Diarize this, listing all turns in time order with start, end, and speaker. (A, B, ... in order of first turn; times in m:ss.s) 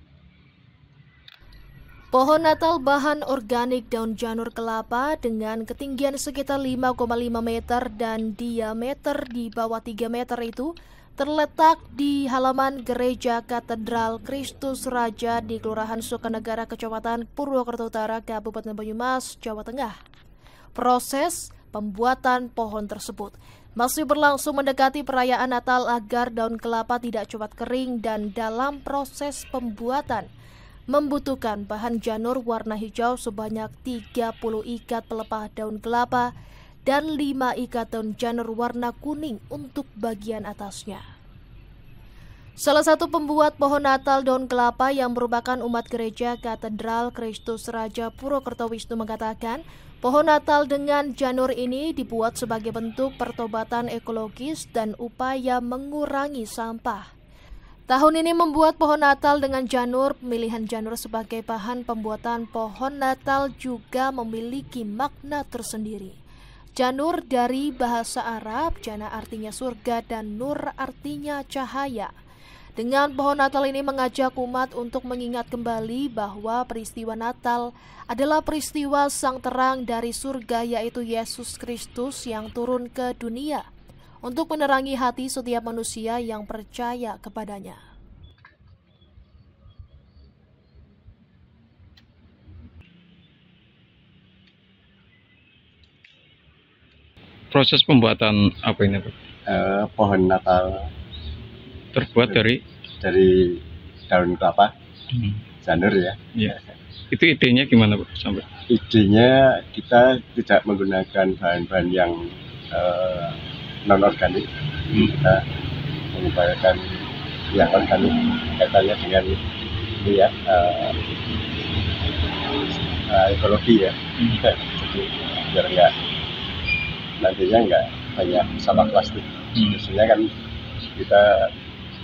0:02.1-0:19.9 A
0:20.8-0:30.3 A
0:30.9-0:36.3 A
0:36.9-0:41.0 A
0:42.6-0:57.0 A
0:57.9-1:06.2 A
1:06.8-1:12.1 A
1:12.8-1:23.7 A
1:24.2-1:27.8 A
1:37.5-1:39.1 B
1:39.5-1:40.9 C
1:41.9-1:42.6 B
1:43.0-1:44.7 C
1:45.1-1:45.4 B
1:45.6-1:46.6 C
1:47.1-1:48.5 B
1:48.7-1:55.4 C
1:56.1-1:57.0 C
1:57.5-1:59.4 C
2:00.0-2:01.0 C
2:03.1-2:05.9 C
2:07.2-2:10.3 C
2:11.0-2:11.5 C